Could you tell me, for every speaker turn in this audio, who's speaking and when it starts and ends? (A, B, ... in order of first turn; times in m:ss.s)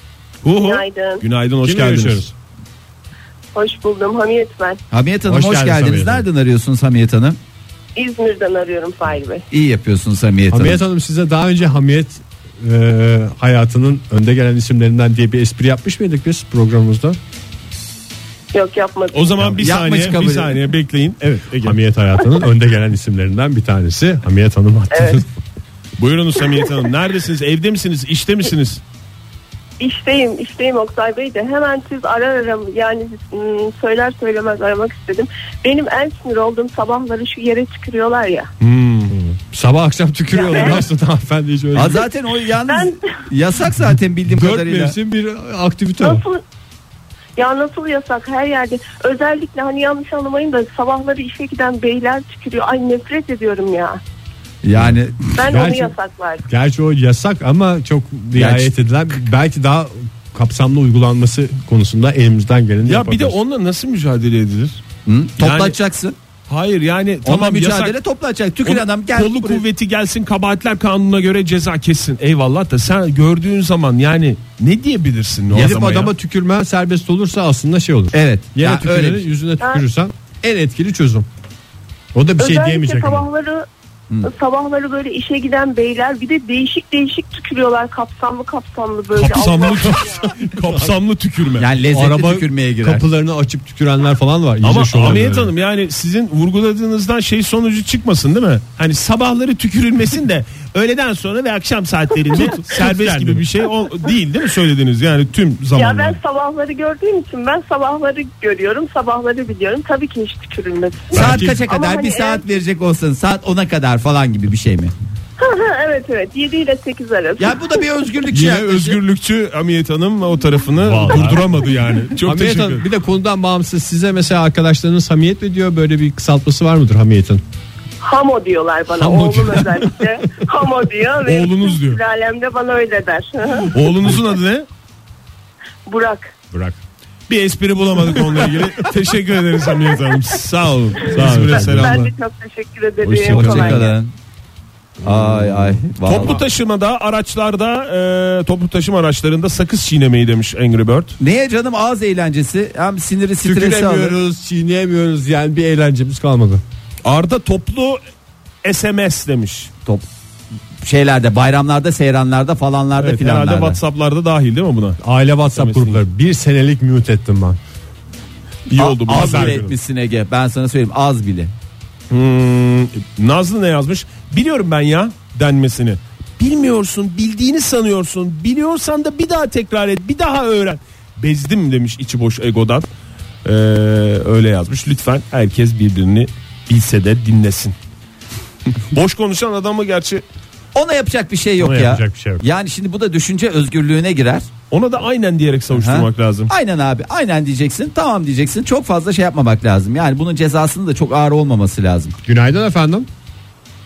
0:00.4-0:02.2 A
0:00.5-0:01.2 B
0:01.6-0:02.3 C
0:03.5-0:04.8 B
0:04.9-0:07.4 D
0:05.2-0:06.3 C
0:08.0-0:09.4 B
0:09.5-0:10.8 D
0:10.5-0:17.2 C
0:18.5-0:19.5 B
0:19.1-0:21.8 A
0:19.6-0:20.6 D
0:21.5-0:25.3 C
0:24.9-0:25.2 B
0:26.0-0:28.8 A
0:29.8-0:38.5 B
0:38.6-0:39.1 A
0:39.1-0:42.1 C
0:40.3-0:40.8 B
0:41.7-0:45.0 D
0:42.6-0:43.0 B
0:44.3-0:46.2 C
0:46.0-0:46.4 B
0:47.4-0:54.0 B
0:54.6-0:55.5 D
0:55.4-0:56.4 B
0:55.4-0:55.9 C
0:56.5-1:03.4 C
0:58.3-0:58.7 D
1:02.8-1:04.8 A
1:05.0-1:06.2 D
1:05.4-1:05.8 A
1:06.5-1:08.0 A
1:07.2-1:09.6 D
1:08.6-1:16.1 A
1:15.5-1:21.2 C
1:18.1-1:19.2 D
1:22.1-1:23.2 C
1:22.4-1:23.6 B
1:24.2-1:30.4 B
1:29.1-1:31.7 A
1:30.6-1:30.9 C
1:31.6-1:33.0 D
1:31.9-1:35.5 C
1:34.6-1:46.2 A
1:42.3-1:43.4 C
1:45.8-1:52.5 B
1:51.1-1:51.6 C
1:51.1-1:54.9 D
1:55.4-1:57.8 B
1:57.4-1:59.0 D
1:58.3-2:02.9 A
2:00.8-2:01.6 C
2:02.2-2:07.4 C
2:08.0-2:13.8 B
2:09.0-2:09.8 C
2:11.2-2:12.0 A
2:13.7-2:14.6 A
2:15.8-2:16.3 B
2:16.5-2:16.8 C
2:17.3-2:22.1 A
2:21.1-2:22.1 C
2:21.1-2:24.0 B
2:23.0-2:23.8 A
2:23.2-2:24.1 D
2:25.0-2:26.4 D
2:25.1-2:25.7 C
2:26.0-2:31.2 A
2:31.2-2:34.2 D
2:33.4-2:36.6 C
2:37.0-2:38.0 A
2:38.6-2:39.7 A
2:40.8-2:43.8 D
2:43.0-2:45.0 A
2:45.0-2:47.6 C
2:45.5-2:46.0 A
2:48.7-2:49.6 A
2:48.8-2:51.5 D
2:49.1-2:49.7 C
2:52.1-3:02.9 A
3:03.4-3:07.7 A
3:08.9-3:10.2 A
3:10.7-3:14.5 D
3:11.6-3:12.4 C
3:14.7-3:16.5 A
3:15.7-3:22.2 D
3:22.2-3:23.1 C